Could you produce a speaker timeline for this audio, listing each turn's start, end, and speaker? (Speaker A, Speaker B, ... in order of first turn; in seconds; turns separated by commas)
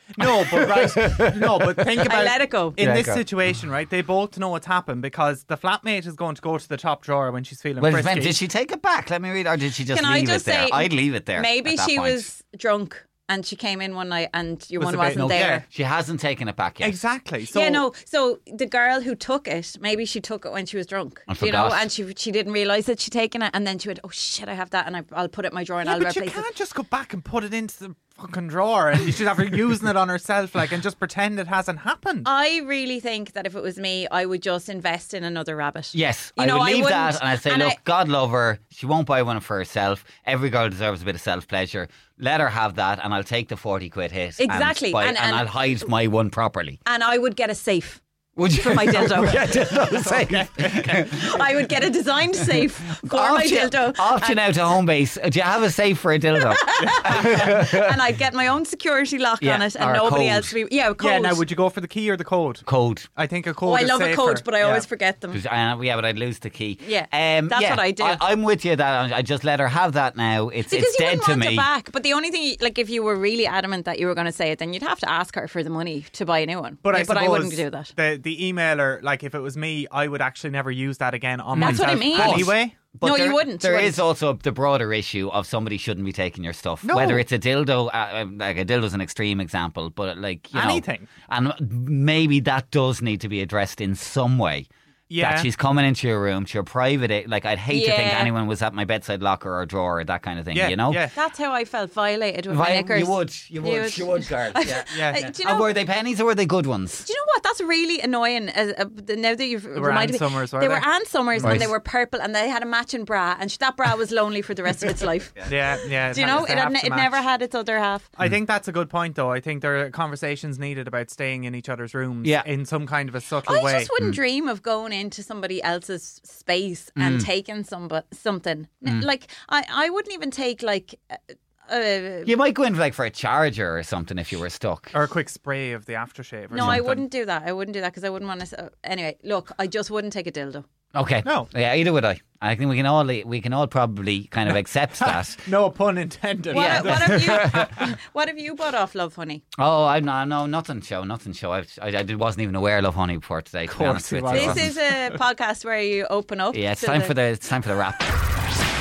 Speaker A: 0.1-8.4, Speaker B: 0.2-2.1, Speaker C: 2.0-2.8, Speaker B: 2.8-3.2, Speaker B: 7.8-12.3, Speaker C: 9.9-15.7, Speaker A: 14.8-15.6, Speaker B: 15.1-17.0, Speaker A: 16.8-17.8, Speaker C: 17.5-26.4, Speaker B: 21.3-21.9, Speaker A: 25.8-32.3, Speaker C: 32.2-37.8, Speaker B: 35.9-46.8, Speaker C: 44.4-45.5, Speaker C: 46.8-49.8, Speaker B: 48.4-51.5, Speaker A: 49.9-50.9, Speaker C: 50.9-54.6, Speaker B: 52.4-57.9, Speaker C: 56.5-61.4, Speaker A: 56.8-57.4, Speaker B: 59.4-60.5, Speaker A: 61.0-64.9, Speaker B: 62.6-63.1, Speaker C: 63.6-65.4, Speaker B: 65.3-71.7, Speaker C: 66.8-68.2, Speaker C: 70.7-77.9, Speaker A: 76.8-82.7, Speaker C: 81.5-84.0, Speaker B: 81.6-101.0, Speaker A: 86.8-87.2, Speaker A: 90.5-91.1, Speaker A: 95.1-95.5, Speaker C: 97.7-98.3, Speaker A: 100.5-101.2, Speaker C: 101.1-105.7, Speaker B: 102.5-107.0, Speaker A: 104.9-105.3, Speaker C: 107.0-118.1, Speaker A: 109.7-111.7, Speaker B: 111.4-111.7, Speaker A: 115.4-117.2, Speaker A: 118.2-123.9, Speaker C: 123.5-132.3, Speaker B: 127.0-127.3, Speaker B: 132.2-134.9, Speaker A: 134.9-137.0, Speaker C: 136.5-140.6, Speaker B: 136.6-136.8, Speaker B: 140.9-145.4, Speaker A: 141.2-141.5, Speaker A: 145.0-147.4, Speaker C: 146.5-149.4, Speaker B: 146.5-147.7, Speaker B: 149.6-154.7, Speaker A: 153.7-155.2, Speaker C: 154.3-157.1, Speaker B: 156.5-158.2